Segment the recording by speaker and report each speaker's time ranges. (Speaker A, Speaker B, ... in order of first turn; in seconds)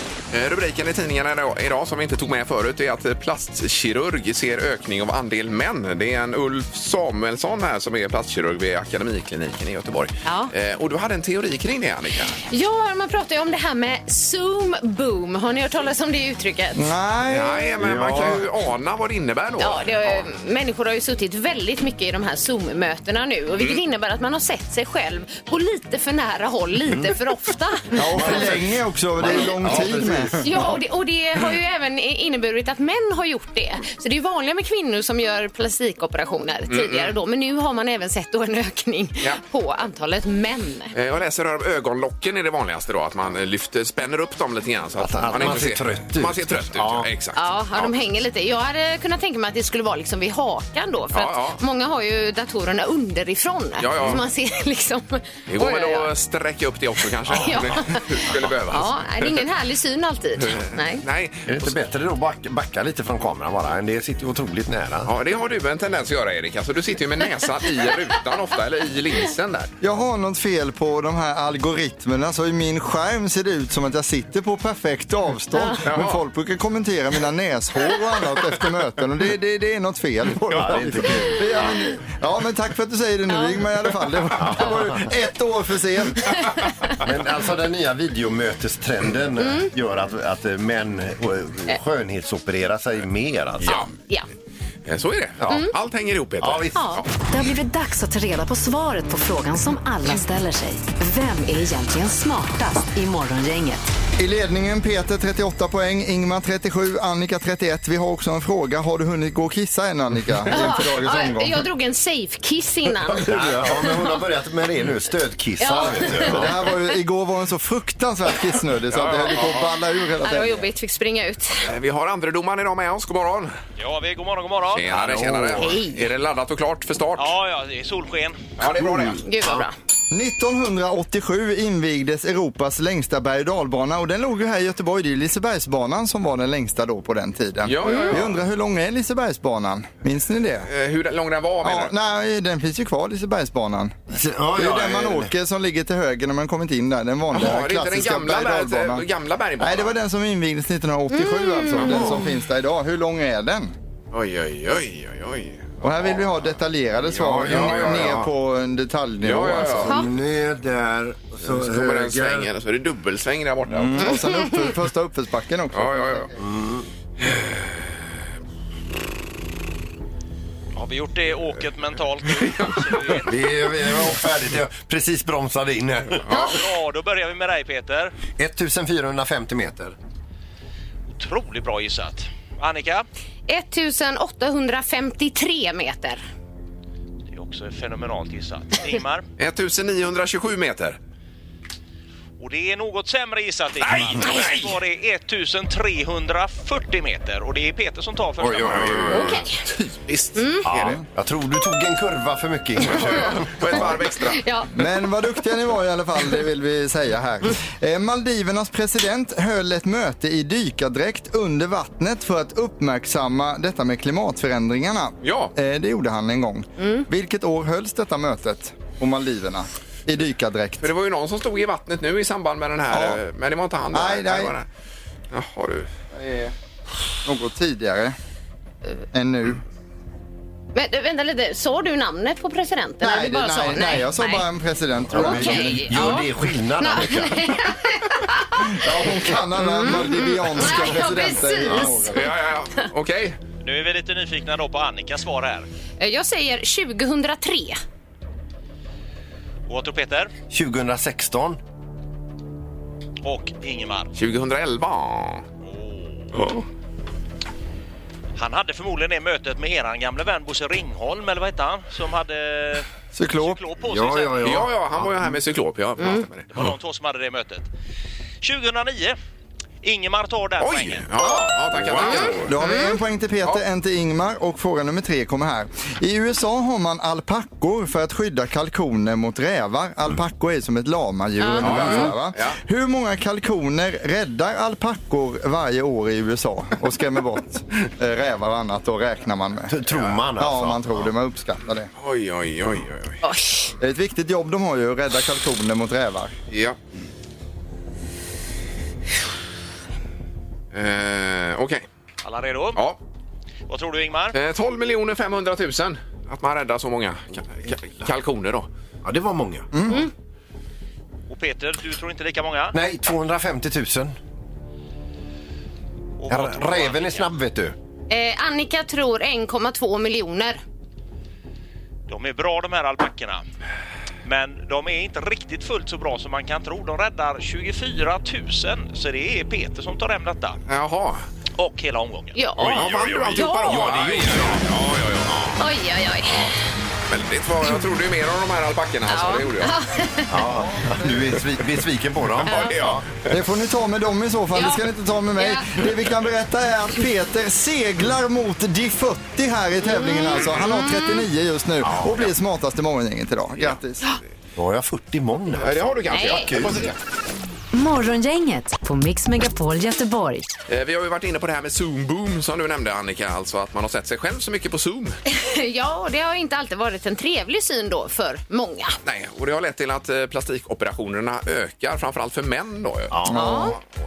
Speaker A: 0.3-12.4, 17.3-20.3, 36.7-37.1, 40.9-47.9, 51.1-51.6, 53.8-54.2, 55.5-59.4, 60.4-61.8, 65.0-69.7, 75.8-76.2, 93.6-93.9, 94.8-97.1, 118.9-119.7, 121.6-123.5, 124.7-127.3, 128.6-129.3, 137.6-138.4, 140.7-141.9, 147.3-149.9, 151.8-152.1, 154.1-156.3, 157.1-158.2, 159.2-160.0, 161.4-164.3, 165.7-166.3, 167.2-167.7, 176.2-176.6, 189.4-191.0, 193.8-194.7, 198.6-199.4, 200.1-201.0, 202.8-204.4, 215.2-215.5, 220.8-224.7, 225.3-225.9, 242.1-243.4, 254.2-255.4, 264.4-266.5, 270.6-272.5, 281.6-282.6, 292.0-293.2, 296.5-296.8, 300.7-301.8, 304.3-308.7, 330.7-331.2, 332.6-335.6, 336.2-336.5, 337.1-339.7, 342.4-343.3, 355.6-356.9, 360.7-365.2, 369.0-373.2
Speaker B: 10.2-10.5, 12.5-16.9, 19.6-28.3, 30.4-40.9, 47.4-56.1, 57.3-61.0, 75.5-75.8, 83.3-83.6, 86.4-86.7, 89.4-89.7, 93.6-94.3, 96.7-97.0, 110.5-113.9, 115.6-116.6, 120.2-121.7, 125.6-126.0, 129.2-129.7, 151.1-152.2, 164.0-164.5, 183.5-186.2, 199.1-199.6, 200.3-200.7, 204.3-204.7, 216.8-217.1, 230.7-234.4, 235.2-238.8, 239.6-242.2, 246.0-247.8, 272.0-273.0, 281.4-282.1, 293.2-293.7, 318.1-320.6, 332.3-333.9, 335.6-336.5, 339.1-340.3, 342.4-342.8, 344.5-344.8, 345.4-345.7, 349.8-351.2, 356.1-356.6, 365.3-368.9, 373.3-373.8
Speaker C: 16.7-18.2, 27.9-30.7, 69.8-86.5, 104.2-111.7, 116.1-120.7, 130.1-140.7, 141.6-149.0, 149.6-153.7, 155.8-160.0, 163.7-166.3, 200.8-201.0, 204.7-220.9, 222.9-223.2, 223.9-224.5, 226.1-226.5, 227.2-228.2, 229.1-229.6, 233.0-235.9, 238.7-242.3, 263.1-263.6, 272.2-289.8, 290.4-291.9, 293.8-296.3, 309.7-310.1, 343.3-354.0, 373.3-373.8
Speaker D: 17.8-18.4, 28.0-30.7, 45.0-47.1, 57.3-57.9, 61.5-65.1, 80.5-81.5, 84.3-85.1, 87.0-93.8, 95.4-95.7, 96.4-96.8, 113.1-116.5, 124.9-125.7, 144.1-145.3, 157.2-158.3, 159.8-162.5, 166.4-166.9, 173.3-176.2, 178.4-179.9, 198.4-199.9, 200.6-204.0, 235.1-237.6, 250.5-251.6, 256.4-256.6, 263.9-265.0, 289.7-291.1, 309.0-309.7, 312.7-314.1, 316.3-317.7, 332.6-334.6, 340.3-343.1, 354.6-356.9, 373.1-373.4
Speaker E: 97.3-103.8, 357.7-360.5
Speaker F: 123.8-125.3, 127.2-128.4, 170.7-173.4, 176.3-178.1, 181.2-183.1, 187.3-189.2, 192.4-199.2, 243.6-245.7, 249.7-250.3, 253.2-254.1, 255.6-256.3, 258.4-264.6, 266.5-267.7, 268.4-269.1, 269.8-271.1, 302.2-302.8, 303.7-304.3, 311.3-312.7, 316.2-317.3, 322.1-323.4, 324.2-330.6, 331.6-332.4, 333.8-334.2